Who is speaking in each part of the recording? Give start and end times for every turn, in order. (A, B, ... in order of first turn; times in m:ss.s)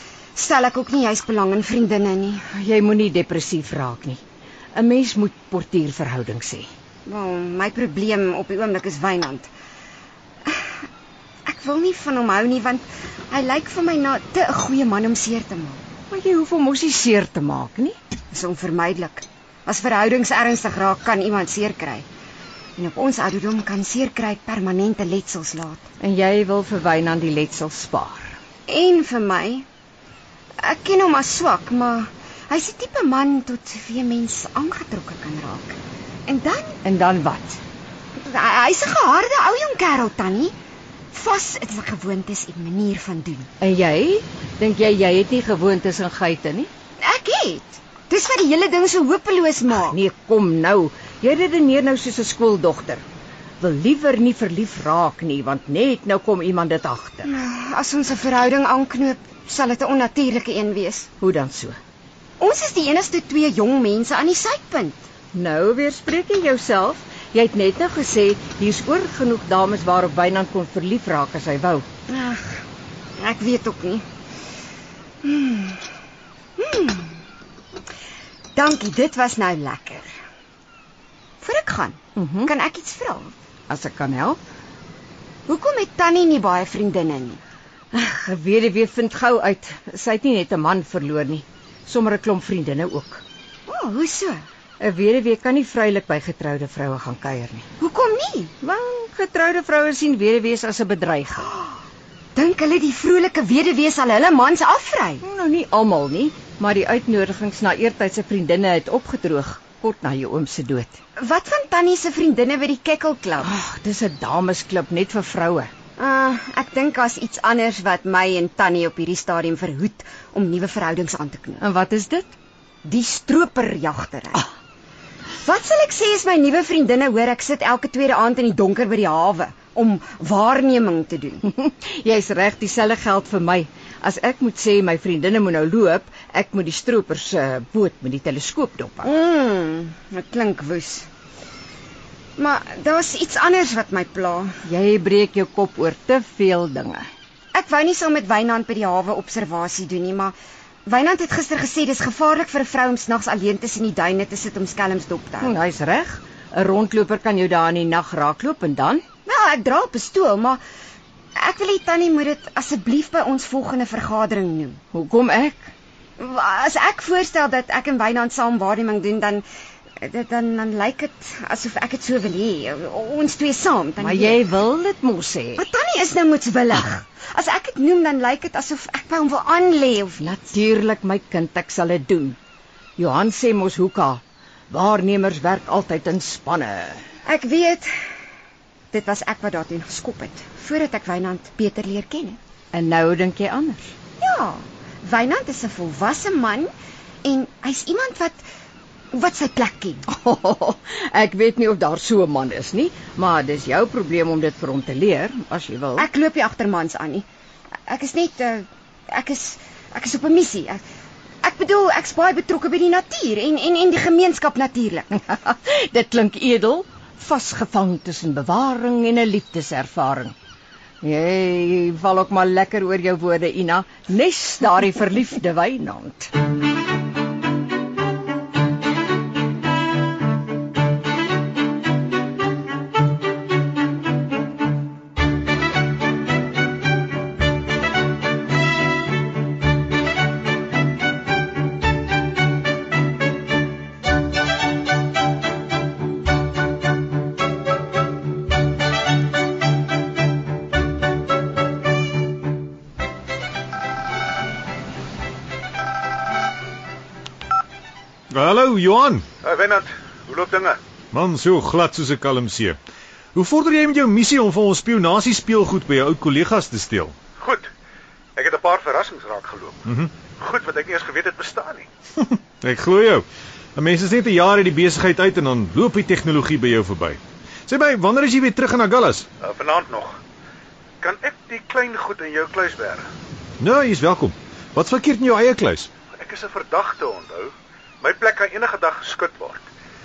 0:00.3-0:02.4 A
0:02.5-0:04.2 B
0:04.7-0:06.7 B
0:07.0-0:09.5 A
0:10.4-0:10.8 A
0:11.4-0:15.8 A
0:16.1-0:18.0 B
0:18.3-0:22.0 A
0:22.8-0:25.8 A
0:26.0-0:28.4 B
0:28.7-0:29.6 A
0:30.6-0:36.8 A
0:36.8-0:37.6 B
0:38.2-0:40.5 A
0:41.1-0:43.5 A
0:43.6-0:46.7 B
0:47.0-0:50.0 A
0:49.7-0:53.0 B
0:53.6-0:57.3 B
0:57.2-1:01.1 A
1:01.2-1:01.8 B
1:02.4-1:05.0 A
1:05.3-1:11.8 B
1:12.1-1:12.6 A
1:13.2-1:14.0 A
1:15.2-1:15.8 A
1:16.6-1:17.2 A
1:18.6-1:20.1 A
1:21.4-1:23.3 A
1:22.1-1:22.5 B
1:23.7-1:24.4 B
1:25.5-1:27.4 A
1:27.9-1:33.2 B
1:33.7-1:34.4 A
1:34.8-1:37.7 B
1:37.8-1:38.5 A
1:38.6-1:41.6 B
1:42.3-1:45.2 A
1:45.2-1:51.0 B
1:51.2-1:53.5 A
1:53.4-1:55.7 B
1:56.0-2:01.6 A
2:01.6-2:02.3 B
2:02.8-2:04.4 A
2:05.4-2:11.4 A
2:11.4-2:19.1 B
2:19.0-2:21.1 A
2:22.4-2:24.6 A
2:24.6-2:27.1 B
2:27.5-2:30.3 A
2:30.8-2:35.5 A
2:35.4-2:39.0 B
2:39.2-2:40.6 A
2:41.4-2:44.8 A
2:44.9-2:45.7 B
2:46.2-2:49.4 A
2:50.0-2:54.4 A
2:54.0-2:55.6 B
2:55.6-3:00.4 A
3:00.2-3:02.4 B
3:03.0-3:07.0 B
3:07.2-3:07.9 A
3:08.9-3:12.4 A
3:12.7-3:13.9 B
3:14.2-3:16.7 A
3:17.2-3:18.4 A
3:19.1-3:20.0 A
3:20.1-3:26.1 B
3:26.0-3:27.3 A
3:27.9-3:30.8 A
3:31.4-3:35.1 A
3:35.2-3:40.3 B
3:41.0-3:46.3 B
4:18.3-4:19.3 C
4:19.4-4:20.8 D
4:21.1-4:22.8 C
4:23.3-4:27.1 C
4:27.4-4:27.7 D
4:28.4-4:31.9 D
4:32.2-4:33.2 C
4:33.8-4:39.3 C
4:39.4-4:40.2 D
4:41.0-4:43.1 D
4:43.6-4:45.9 C
4:46.2-4:49.7 D